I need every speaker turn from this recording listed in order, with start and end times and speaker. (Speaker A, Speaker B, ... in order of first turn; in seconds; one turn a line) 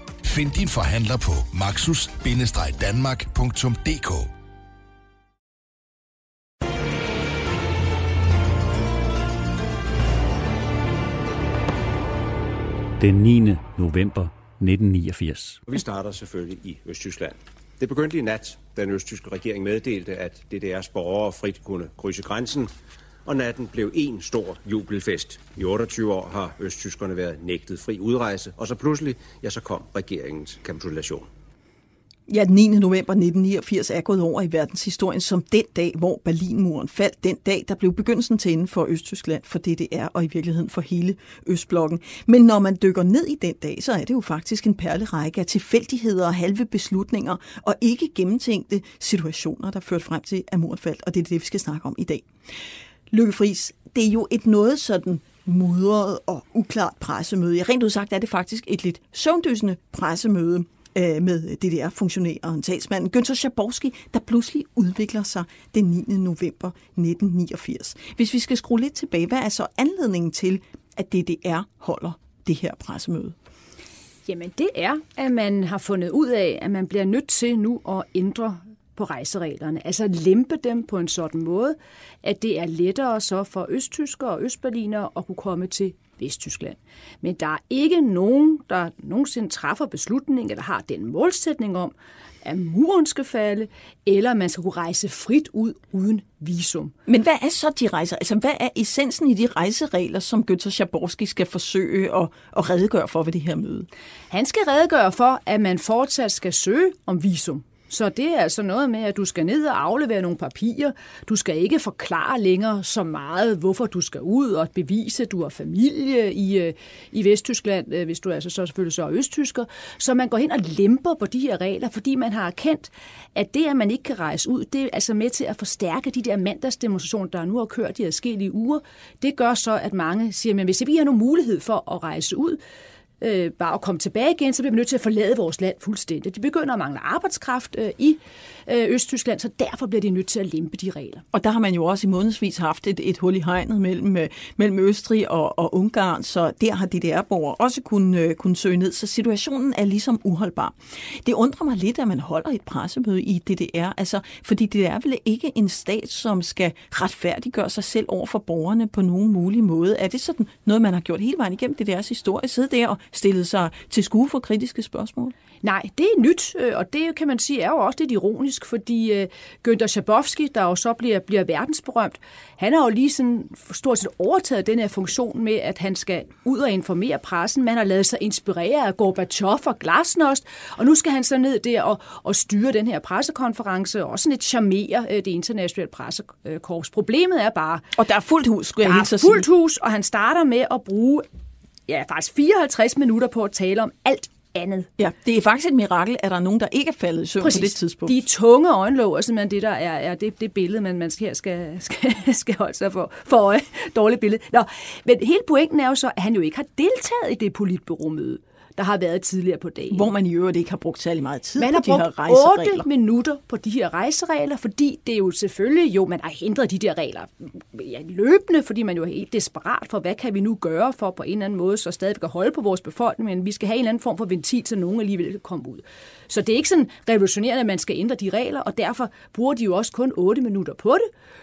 Speaker A: 0.2-4.3
Speaker B: 13.0-15.7
Speaker C: 15.7-22.7
Speaker C: 23.2-31.3
Speaker D: 32.3-52.3
Speaker D: 53.1-73.3
Speaker E: 74.3-96.9
Speaker D: 97.1-103.9
Speaker E: 104.3-132.6
Speaker E: 133.2-141.2
Speaker D: 141.3-165.3
Speaker E: 165.6-187.9
Speaker D: 188.0-189.5
Speaker E: 188.8-191.3
Speaker E: 191.9-194.9
Speaker D: 195.0-198.2
Speaker E: 197.4-210.1
Speaker D: 209.9-212.9
Speaker E: 211.6-231.1